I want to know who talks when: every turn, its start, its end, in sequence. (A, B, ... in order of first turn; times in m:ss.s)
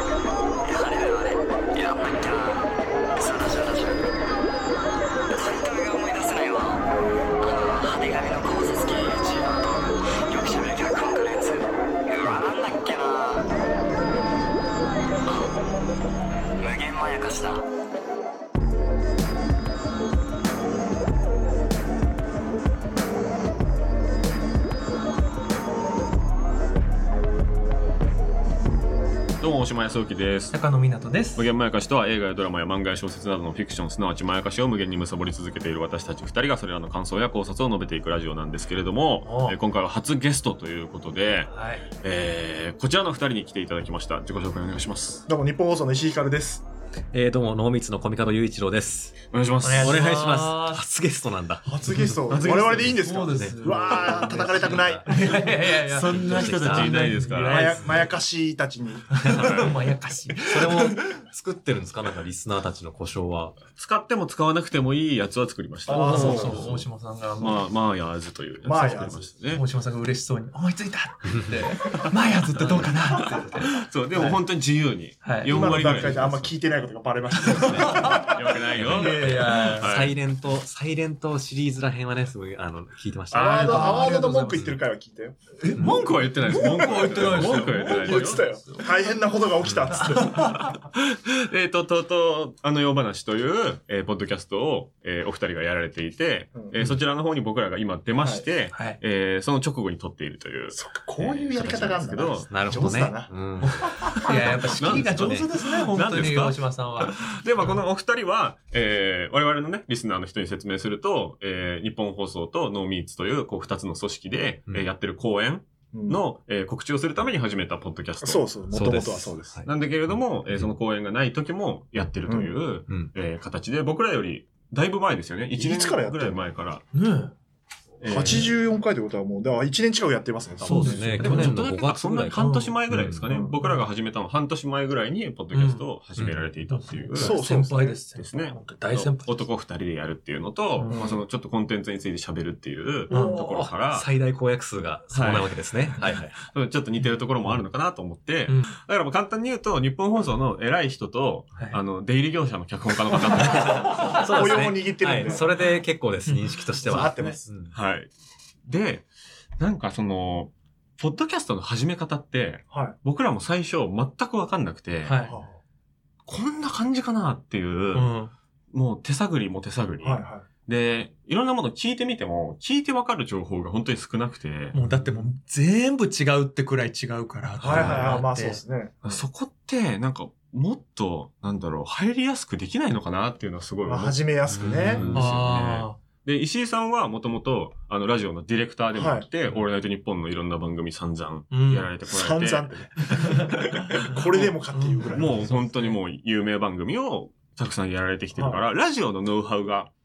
0:00.6-0:04.0 A
0:05.3-0:06.8 A
0:07.4-0:13.5 A
0:15.2-0:15.5 A
0:16.6-0:17.6 A
0:29.4-0:30.6 B
0:30.5-0:31.5 C
0:31.4-0:41.5 B
0:39.2-0:39.6 C
0:41.5-0:41.9 C
0:42.0-0:45.2 B
0:45.3-0:46.6 D
0:47.1-0:49.2 E
0:49.3-0:50.4 B
0:49.6-0:50.8 C
0:49.8-0:52.0 E
0:51.6-0:55.4 D
0:51.9-0:52.2 C
0:52.2-0:53.0 B
0:52.7-0:58.1 C
0:53.3-0:57.1 E
0:55.8-0:57.8 B
0:57.5-0:59.4 D
0:59.2-1:01.0 C
0:59.2-0:59.8 B
1:00.4-1:03.6 E
1:03.7-1:06.8 B
1:05.9-1:06.6 D
1:05.9-1:07.6 C
1:06.0-1:06.7 E
1:07.4-1:09.6 B
1:08.6-1:09.3 D
1:09.5-1:14.4 C
1:12.7-1:12.9 B
1:13.7-1:16.5 B
1:15.2-1:16.1 C
1:15.5-1:18.4 D
1:17.4-1:18.3 C
1:17.5-1:20.1 B
1:18.8-1:24.8 E
1:18.9-1:20.0 C
1:23.3-1:24.1 B
1:23.3-1:25.4 D
1:23.7-1:24.7 C
1:25.6-1:28.9 C
1:25.8-1:28.4 B
1:26.6-1:30.7 D
1:29.6-1:30.0 E
1:30.0-1:30.7 C
1:30.9-1:43.0 B
1:38.2-1:38.4 D
1:38.7-1:39.0 C
1:40.7-1:43.3 D
1:41.6-1:46.4 E
1:43.6-1:47.8 C
1:44.8-1:59.1 B
1:55.9-1:56.2 D
1:58.2-1:59.6 D
1:58.7-2:00.7 E
1:59.6-2:06.8 B
2:02.2-2:02.5 D
2:05.6-2:06.4 D
2:06.9-2:07.3 C
2:08.0-2:08.5 B
2:08.0-2:11.2 D
2:10.6-2:13.2 E
2:10.6-2:11.6 C
2:11.2-2:17.6 B
2:12.3-2:12.7 C
2:13.3-2:13.6 D
2:13.6-2:13.9 C
2:15.5-2:15.9 C
2:16.2-2:16.4 E
2:16.7-2:19.4 C
2:17.2-2:18.0 D
2:18.2-2:24.1 B
2:20.7-2:21.0 C
2:20.9-2:21.2 D
2:23.1-2:23.6 C
2:23.1-2:26.4 E
2:25.1-2:25.6 B
2:26.4-2:34.2 B
2:28.5-2:28.7 C
2:33.3-2:37.7 E
2:33.9-2:35.5 D
2:34.1-2:34.6 C
2:35.2-2:35.6 C
2:36.2-2:37.0 C
2:36.8-2:37.4 D
2:36.9-2:38.1 B
2:38.6-2:45.2 B
2:42.7-2:43.0 D
2:45.0-2:45.4 C
2:45.2-2:45.6 D
2:46.2-2:48.1 B
2:47.9-2:48.3 C
2:48.7-2:54.8 B
2:50.0-2:50.4 D
2:54.7-2:58.6 C
2:54.8-2:55.1 E
2:57.6-2:59.2 D
2:57.6-2:58.2 B
2:57.8-2:58.1 E
2:59.0-3:14.5 B
3:03.8-3:05.0 D
3:04.5-3:05.3 E
3:05.1-3:06.0 C
3:08.9-3:09.2 D
3:11.5-3:11.9 C
3:12.0-3:15.7 D
3:13.1-3:13.5 C
3:14.7-3:16.0 C
3:15.1-3:19.9 B
3:18.4-3:18.6 D